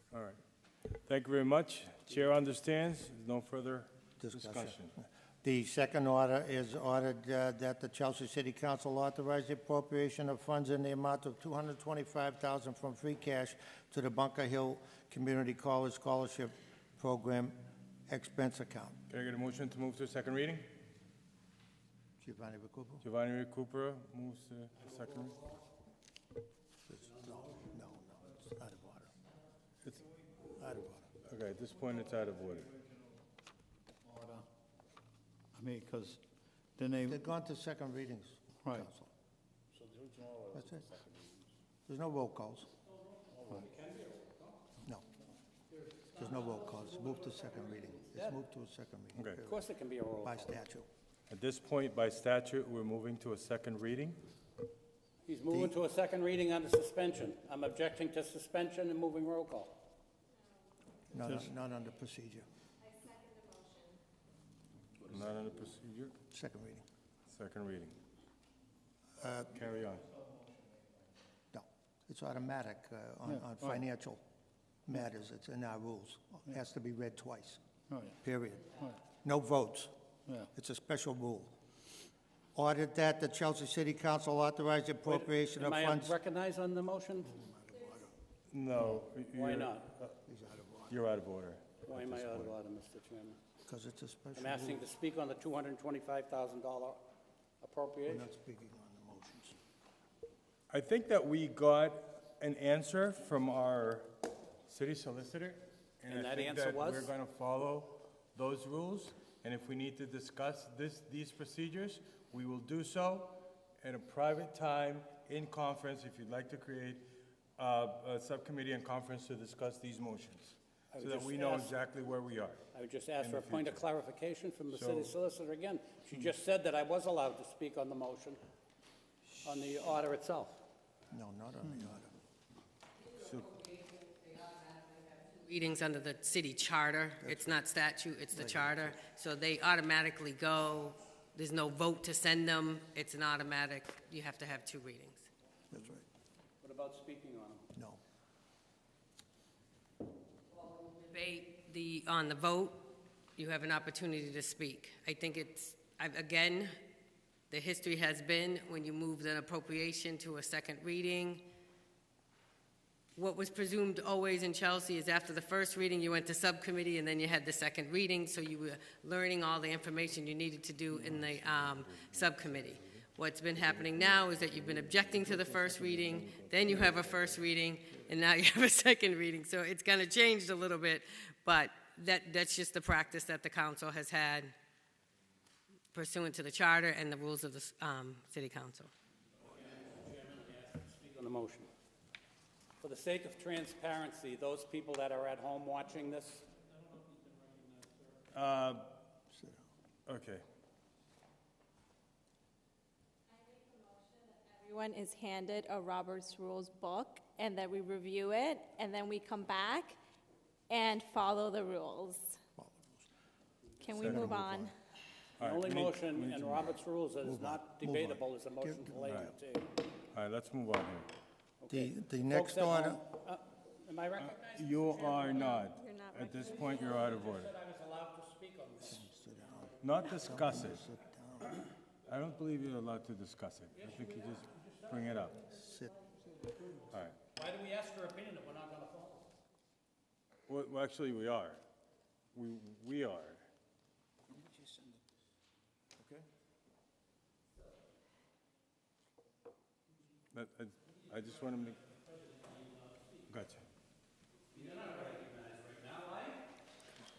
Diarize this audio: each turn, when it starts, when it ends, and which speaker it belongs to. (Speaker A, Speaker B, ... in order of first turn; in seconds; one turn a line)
Speaker A: 0.1-0.4
Speaker A: 1.1-4.9
Speaker B: 4.2-17.6
Speaker B: 18.1-19.0
Speaker A: 19.1-20.7
Speaker B: 22.2-23.1
Speaker A: 23.0-25.4
Speaker C: 24.9-25.6
Speaker B: 26.9-29.1
Speaker C: 27.3-27.6
Speaker B: 30.5-31.1
Speaker A: 31.2-32.7
Speaker D: 34.0-34.5
Speaker D: 35.5-36.2
Speaker D: 36.8-37.2
Speaker B: 37.1-39.1
Speaker C: 39.8-40.2
Speaker B: 40.5-41.0
Speaker B: 41.9-42.7
Speaker C: 43.1-44.7
Speaker C: 45.7-48.4
Speaker B: 46.1-49.6
Speaker C: 49.4-50.5
Speaker B: 50.2-50.9
Speaker A: 51.3-54.2
Speaker C: 55.3-59.8
Speaker B: 61.1-62.5
Speaker E: 62.8-64.0
Speaker A: 65.0-66.2
Speaker B: 66.3-66.8
Speaker A: 67.3-68.0
Speaker B: 69.2-69.6
Speaker A: 69.5-70.1
Speaker B: 71.5-74.2
Speaker D: 73.4-73.8
Speaker B: 74.9-77.6
Speaker D: 77.9-78.2
Speaker B: 78.2-79.9
Speaker B: 80.5-81.5
Speaker B: 82.5-86.2
Speaker C: 85.1-87.3
Speaker B: 87.3-88.2
Speaker A: 88.5-90.1
Speaker C: 89.3-89.9
Speaker B: 90.2-91.0
Speaker A: 90.9-92.6
Speaker C: 91.9-93.4
Speaker B: 93.7-94.8
Speaker C: 94.4-97.0
Speaker C: 97.6-98.2
Speaker B: 98.1-99.6
Speaker A: 100.7-104.1
Speaker A: 104.7-117.0
Speaker C: 106.1-107.1
Speaker A: 117.6-122.6
Speaker C: 120.9-121.7
Speaker C: 122.7-128.4
Speaker A: 123.2-123.9
Speaker A: 124.7-125.1
Speaker C: 129.4-130.6
Speaker B: 131.1-132.1
Speaker A: 133.2-133.5
Speaker F: 134.7-145.3
Speaker B: 137.2-137.6
Speaker B: 138.3-139.0
Speaker B: 145.7-146.1
Speaker C: 146.6-147.7
Speaker B: 147.8-148.0
Speaker F: 150.8-156.7
Speaker F: 157.5-161.4
Speaker F: 163.2-184.5
Speaker A: 170.9-177.4
Speaker F: 185.9-188.9
Speaker C: 189.5-191.7
Speaker C: 192.8-198.2
Speaker A: 198.3-198.9
Speaker A: 200.1-200.4
Speaker E: 203.3-210.0
Speaker E: 210.7-212.4
Speaker B: 212.6-212.9
Speaker E: 213.8-214.7
Speaker A: 213.9-214.4
Speaker B: 214.0-214.7
Speaker A: 215.4-216.8
Speaker C: 215.4-219.7
Speaker B: 217.2-219.2
Speaker A: 220.1-221.1
Speaker C: 221.6-225.7
Speaker B: 221.7-223.0
Speaker A: 224.4-227.5
Speaker E: 225.2-227.1
Speaker C: 226.7-229.1
Speaker B: 228.8-231.6
Speaker A: 229.8-230.8
Speaker A: 232.1-235.4
Speaker C: 233.8-235.5
Speaker B: 235.5-236.7
Speaker A: 236.9-237.2
Speaker C: 237.3-239.3
Speaker A: 240.5-241.6
Speaker A: 242.3-243.4
Speaker A: 250.3-251.8
Speaker C: 251.9-253.2
Speaker A: 253.3-253.6
Speaker C: 254.5-256.5